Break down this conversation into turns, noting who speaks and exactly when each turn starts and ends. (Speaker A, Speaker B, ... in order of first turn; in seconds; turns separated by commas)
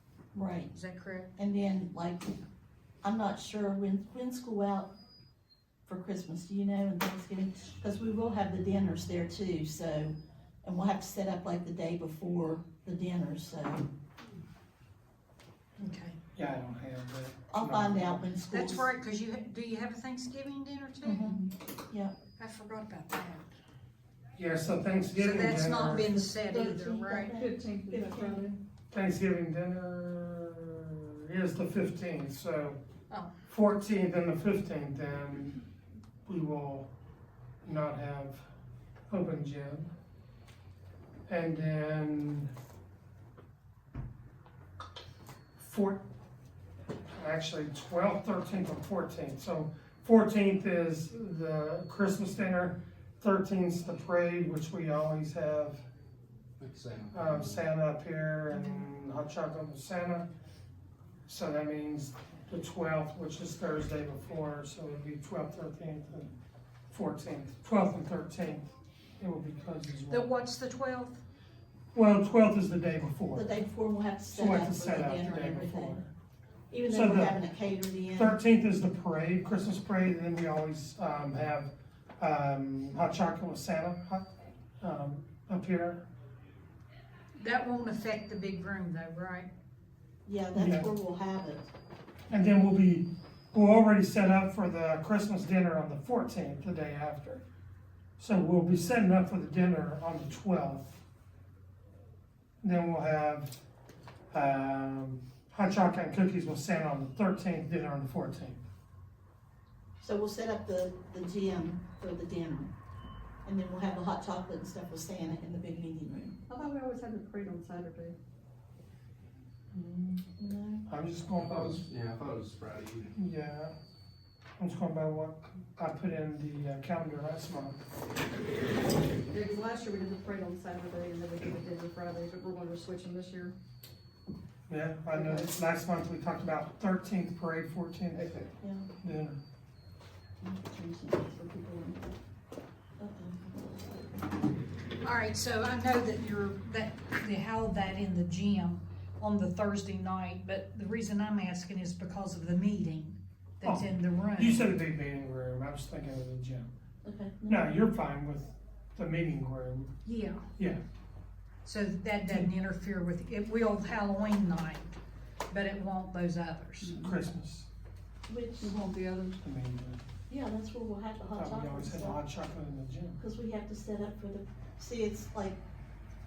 Speaker A: 0.3-0.7, Speaker B: 0.7-1.3, Speaker A: 1.4-2.3, Speaker A: 3.0-4.9, Speaker A: 5.8-13.8, Speaker B: 15.8-16.2, Speaker C: 16.3-18.2, Speaker A: 17.5-18.9, Speaker B: 18.5-21.4, Speaker A: 21.0-22.1, Speaker B: 22.4-23.5, Speaker C: 24.4-26.1, Speaker B: 25.1-27.4, Speaker A: 25.9-28.5, Speaker D: 27.9-28.3, Speaker C: 28.9-32.8, Speaker C: 33.5-35.6, Speaker C: 36.2-36.9, Speaker C: 37.6-38.4, Speaker C: 39.1-39.9, Speaker C: 41.3-42.5, Speaker C: 45.6-46.0, Speaker C: 47.1-55.8, Speaker E: 56.6-57.6, Speaker C: 57.1-60.3, Speaker C: 61.3-66.3, Speaker C: 66.9-68.7, Speaker C: 69.2-70.3, Speaker B: 70.1-71.2, Speaker C: 71.9-73.5, Speaker A: 73.3-76.0, Speaker C: 74.3-76.1, Speaker A: 76.7-78.4, Speaker C: 76.9-77.4, Speaker C: 78.1-84.2, Speaker C: 84.8-86.0, Speaker B: 87.4-89.5, Speaker A: 90.2-91.7, Speaker C: 90.5-90.9, Speaker C: 92.3-97.4, Speaker C: 98.2-101.0, Speaker C: 102.6-103.6, Speaker C: 104.3-108.6, Speaker A: 110.0-112.7, Speaker A: 113.4-116.4, Speaker D: 116.5-118.1, Speaker C: 119.7-120.3, Speaker A: 120.4-120.8, Speaker C: 120.8-121.9, Speaker E: 121.3-123.1, Speaker C: 123.2-123.7, Speaker C: 124.6-127.8, Speaker D: 129.3-133.6, Speaker C: 134.7-138.3, Speaker D: 135.1-135.6, Speaker D: 138.2-138.4, Speaker A: 138.6-138.9, Speaker C: 139.0-139.4, Speaker D: 140.4-142.0, Speaker A: 143.0-143.8, Speaker B: 145.0-154.6, Speaker C: 153.6-156.7, Speaker A: 157.0-157.8, Speaker C: 157.5-159.9, Speaker B: 160.0-160.4, Speaker C: 160.6-160.8, Speaker B: 161.6-164.9, Speaker B: 165.5-167.0, Speaker C: 167.0-167.7, Speaker A: 168.3-168.8, Speaker D: 168.6-169.4, Speaker C: 169.4-170.0, Speaker A: 170.3-172.2, Speaker C: 171.3-173.2, Speaker A: 173.2-175.6